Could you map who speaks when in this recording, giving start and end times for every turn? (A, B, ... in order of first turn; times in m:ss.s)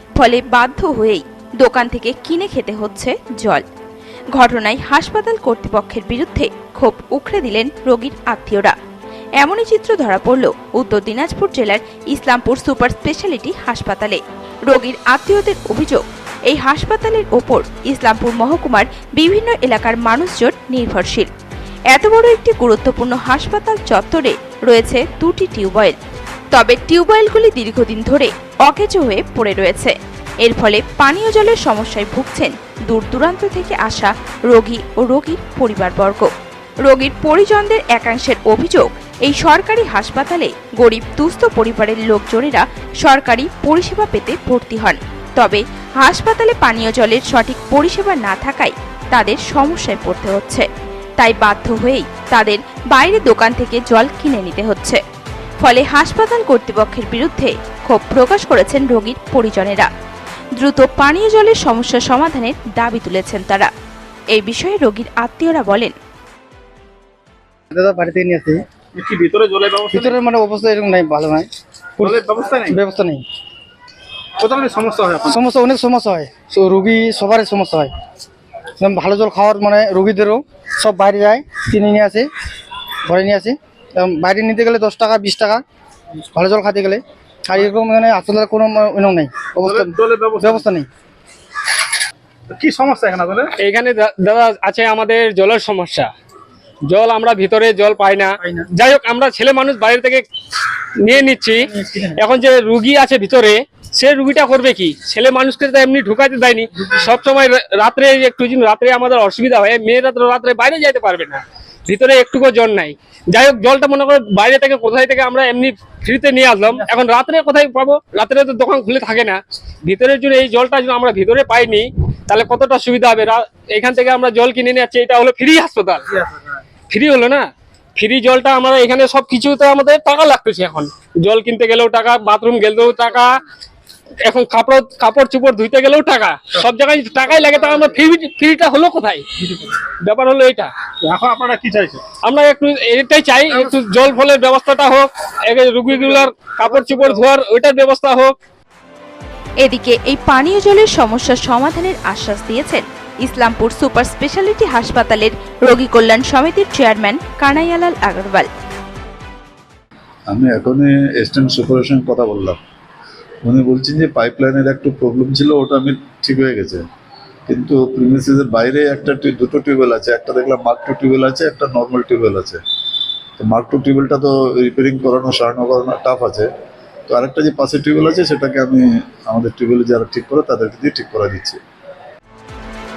0:00.2-0:03.6 A
0:04.3-0:08.7 A
0:09.4-0:21.3 A
0:21.9-0:26.0 A
0:26.5-0:36.3 A
0:36.8-0:50.6 A
0:51.2-0:55.0 A
0:55.6-0:59.9 A
1:00.6-1:03.7 A
1:04.3-1:05.9 A
1:07.7-1:08.6 B
1:08.9-1:10.2 C
1:09.9-1:13.2 B
1:12.0-1:12.8 C
1:14.4-1:15.4 C
1:15.3-1:17.9 B
1:18.8-1:22.3 B
1:23.0-1:25.6 B
1:26.3-1:30.9 B
1:29.6-1:30.6 C
1:32.5-1:33.5 C
1:33.6-1:36.1 D
1:36.9-1:40.2 D
1:41.0-2:06.1 D
1:41.6-1:42.2 B
2:06.9-2:13.4 D
2:14.2-2:19.2 D
2:19.4-2:19.8 C
2:20.0-2:20.7 D
2:21.0-2:22.2 C
2:22.2-2:28.3 D
2:25.9-2:27.2 C
2:29.6-2:38.5 A
2:40.3-2:42.6 E
2:43.4-2:46.8 E
2:47.5-2:52.6 E
2:53.4-2:56.5 E
2:57.1-3:01.6 E